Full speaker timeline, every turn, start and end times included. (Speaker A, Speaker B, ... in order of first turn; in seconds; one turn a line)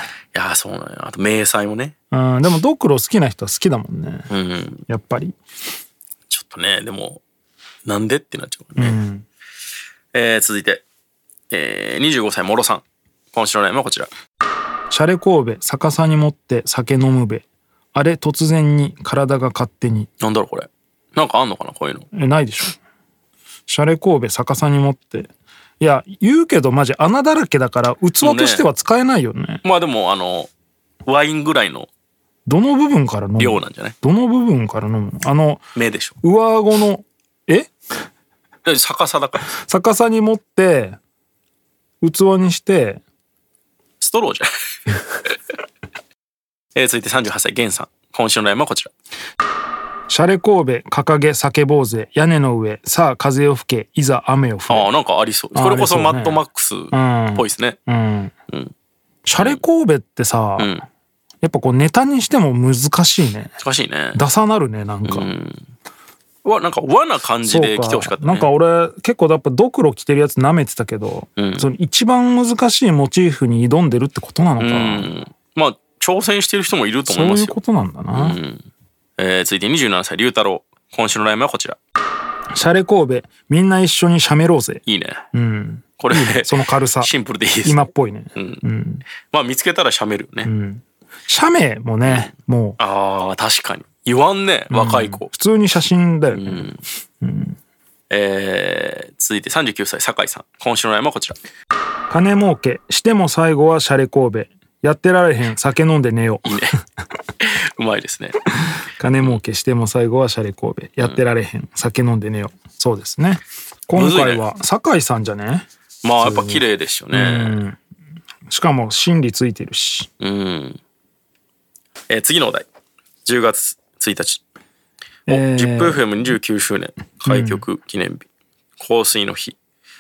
Speaker A: 0.3-1.9
Speaker B: 2.1-4.3
Speaker A: 4.3-4.8
Speaker B: 4.9-5.4
Speaker A: 6.3-7.2
Speaker A: 7.8-9.0
Speaker B: 8.8-9.3
Speaker A: 10.1-10.8
Speaker A: 11.5-14.1
Speaker B: 14.9-20.1
Speaker A: 20.2-22.1
Speaker B: 22.1-22.8
Speaker B: 23.7-29.6
Speaker A: 28.2-28.7
Speaker A: 29.6-30.5
Speaker A: 31.1-31.9
Speaker B: 32.5-35.6
Speaker A: 33.4-34.0
Speaker A: 35.8-36.2
Speaker B: 36.2-37.7
Speaker A: 38.6-39.5
Speaker B: 39.6-41.0
Speaker B: 42.0-43.0
Speaker A: 44.0-44.5
Speaker A: 46.8-48.9
Speaker B: 50.1-54.9
Speaker A: 54.7-57.8
Speaker B: 55.5-58.3
Speaker B: 59.3-60.7
Speaker A: 59.4-59.6
Speaker A: 60.6-60.8
Speaker B: 61.4-63.5
Speaker A: 63.6-64.2
Speaker B: 64.1-65.3
Speaker A: 65.0-65.7
Speaker A: 66.4-68.5
Speaker B: 67.5-75.1
Speaker A: 71.4-71.7
Speaker A: 74.6-77.6
Speaker B: 77.1-78.4
Speaker A: 78.1-81.8
Speaker B: 82.5-84.8
Speaker A: 84.9-85.2
Speaker B: 85.3-87.1
Speaker A: 86.0-88.6
Speaker B: 87.6-89.1
Speaker A: 89.2-90.5
Speaker B: 90.4-92.8
Speaker A: 92.0-95.3
Speaker B: 94.7-97.6
Speaker A: 96.3-96.8
Speaker A: 98.1-101.4
Speaker B: 102.1-106.6
Speaker A: 106.5-106.8
Speaker A: 107.4-108.5
Speaker B: 109.0-115.7
Speaker A: 113.9-114.5
Speaker A: 116.0-117.6
Speaker B: 116.2-117.8
Speaker B: 118.5-120.1
Speaker A: 120.2-120.8
Speaker A: 122.1-122.7
Speaker A: 123.2-124.4
Speaker B: 125.3-126.2
Speaker A: 125.3-128.3
Speaker B: 127.2-127.6
Speaker A: 128.8-129.6